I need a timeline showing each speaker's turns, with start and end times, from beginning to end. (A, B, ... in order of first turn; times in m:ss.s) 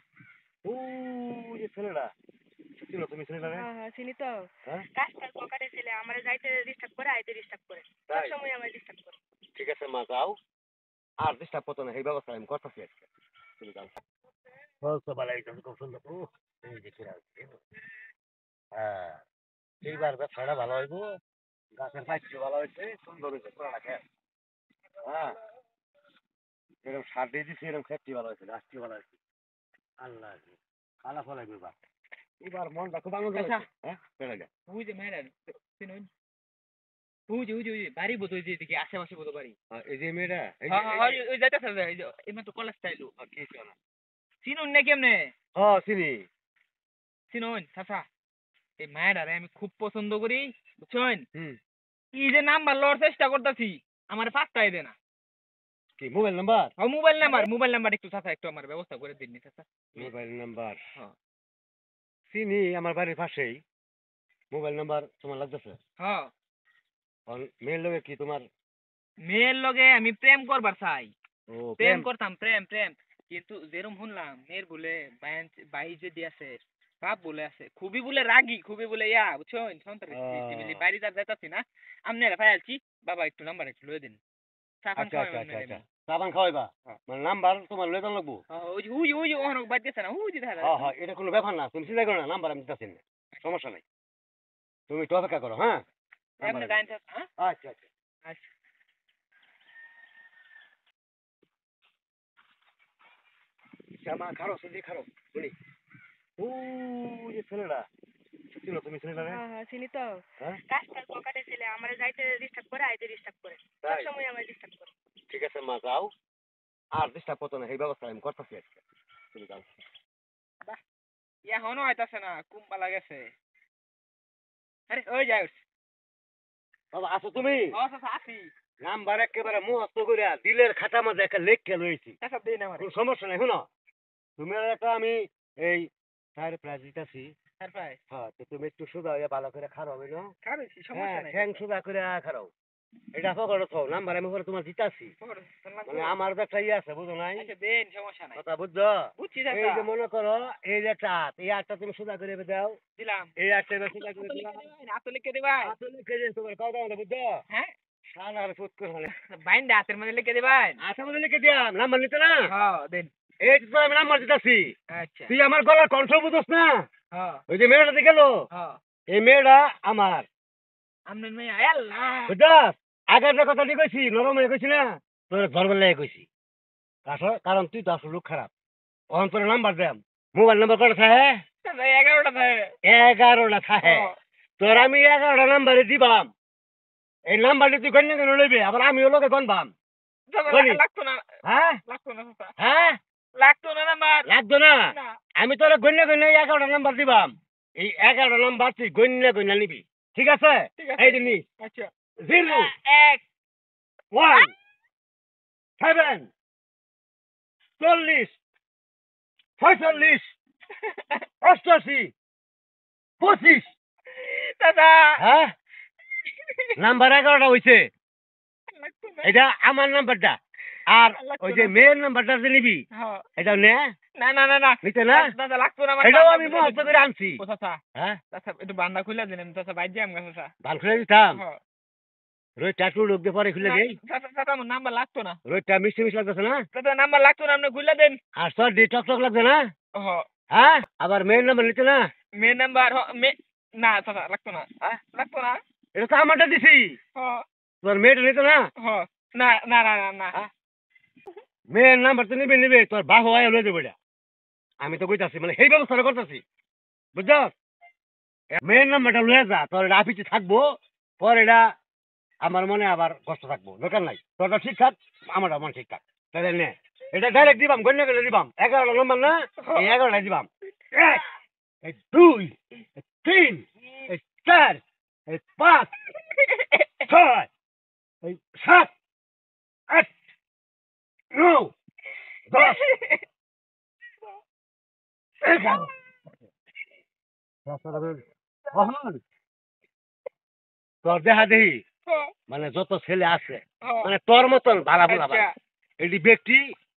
0:00.6-0:02.1 A
0:02.8-0:03.7 A
0:03.4-0:04.4 B
0:05.0-0:09.2 B
0:08.1-0:08.4 A
0:09.6-0:10.3 A
0:11.2-0:13.1 A
0:13.6-0:13.9 A
0:14.8-0:17.6 A
0:18.7-0:19.2 A
0:19.8-0:21.0 A
0:21.7-0:24.0 A
0:25.0-0:25.3 A
0:26.8-0:29.2 A
0:30.0-0:31.7 A
0:32.4-0:34.5 A
0:33.3-0:33.6 C
0:34.7-0:36.1 C
0:37.3-0:39.5 C
0:39.7-0:41.2 A
0:40.7-0:43.1 C
0:43.2-0:43.8 A
0:44.4-0:45.3 C
0:45.6-0:46.2 A
0:47.3-0:48.0 C
0:48.8-0:51.2 C
0:52.1-0:54.9 C
0:56.0-0:56.7 A
0:56.8-1:00.1 C
1:00.0-1:00.8 A
1:02.3-1:03.6 A
1:04.5-1:05.8 A
1:06.0-1:06.3 C
1:07.3-1:08.4 A
1:09.2-1:11.1 C
1:11.5-1:12.1 A
1:11.8-1:24.2 C
1:20.1-1:20.8 A
1:24.8-1:25.8 C
1:25.0-1:28.4 A
1:28.5-1:30.9 C
1:30.6-1:33.8 A
1:34.9-1:35.8 A
1:36.4-1:37.9 A
1:36.4-1:37.3 C
1:38.2-1:38.5 C
1:44.0-1:45.5 A
1:46.4-1:47.8 A
1:48.5-1:49.4 A
1:49.2-1:54.9 B
1:53.8-1:54.1 A
1:55.3-1:56.1 A
1:56.9-1:59.7 A
2:01.5-2:03.3 C
2:04.9-2:05.6 C
2:06.9-2:07.8 A
2:07.7-2:08.5 C
2:08.8-2:12.2 A
2:12.2-2:12.9 C
2:12.8-2:13.7 A
2:14.4-2:17.3 A
2:17.6-2:18.0 C
2:18.1-2:20.3 A
2:20.4-2:21.6 C
2:20.9-2:22.5 A
2:23.1-2:25.1 A
2:25.2-2:26.1 C
2:25.8-2:27.5 A
2:27.4-2:28.4 C
2:28.3-2:32.8 A
2:29.2-2:29.8 C
2:33.0-2:33.3 C
2:33.4-2:34.7 A
2:33.9-2:35.7 C
2:35.6-2:37.4 A
2:38.1-2:39.1 A
2:39.2-2:40.8 C
2:40.8-2:42.5 A
2:42.5-2:43.1 C
2:43.4-2:44.7 A
2:44.9-2:45.3 C
2:45.3-2:46.8 A
2:47.1-2:47.4 C
2:47.5-2:48.4 A
2:48.5-2:48.8 C
2:49.1-2:50.2 A
2:51.1-2:52.3 C
2:52.3-2:56.2 A
2:57.0-2:58.5 A
2:59.1-3:01.4 A
3:01.6-3:02.7 C
3:02.8-3:06.3 A
3:03.8-3:04.1 C
3:07.3-3:09.7 A
3:10.3-3:11.2 C
3:10.5-3:10.8 A
3:11.4-3:11.8 A
3:11.8-3:12.5 C
3:12.6-3:13.0 A
3:13.4-3:14.2 C
3:14.2-3:14.8 A
3:15.4-3:21.4 A
3:20.8-3:21.9 C
3:22.2-3:22.7 A
3:22.4-3:23.2 C
3:24.1-3:24.5 A
3:25.8-3:26.3 A
3:27.8-3:28.4 A
3:29.6-3:30.3 A
3:30.8-3:31.2 C
3:31.4-3:32.1 A
3:33.2-3:33.7 A
3:34.1-3:35.2 C
3:35.2-3:35.5 A
3:36.8-3:37.9 A
3:38.7-3:39.3 C
3:39.2-3:42.8 A
3:41.2-3:41.8 C
3:42.9-3:43.2 C
3:43.4-3:43.8 A
3:44.2-3:47.8 C
3:44.8-3:45.3 A
3:46.0-3:47.4 A
3:48.3-3:50.5 C
3:50.6-3:51.4 A
3:52.6-3:54.0 A
3:53.6-3:55.4 C
3:55.4-3:56.6 A
3:56.7-3:58.2 C
3:58.3-3:59.7 A
4:00.0-4:00.2 C
4:00.5-4:02.0 A
4:02.4-4:05.6 C
4:05.9-4:06.9 A
4:07.2-4:07.4 C
4:07.8-4:08.7 A
4:08.8-4:10.3 C
4:11.7-4:13.9 A
4:14.8-4:16.4 A
4:17.1-4:17.5 A
4:18.6-4:20.6 A
4:21.2-4:21.6 A
4:22.4-4:31.2 A
4:29.6-4:29.9 C
4:31.8-4:35.9 A
4:36.3-4:37.0 C
4:37.0-4:37.5 A
4:38.2-4:38.9 A
4:39.9-4:40.1 A
4:41.3-4:41.7 A
4:42.5-4:42.8 A
4:42.5-4:43.2 C
4:45.4-4:45.9 A
4:47.6-4:49.2 A
4:51.0-4:51.8 A
4:52.1-4:52.3 C
4:52.5-4:55.5 A
4:53.8-4:54.1 C
4:55.1-4:55.5 C
4:56.0-4:56.7 A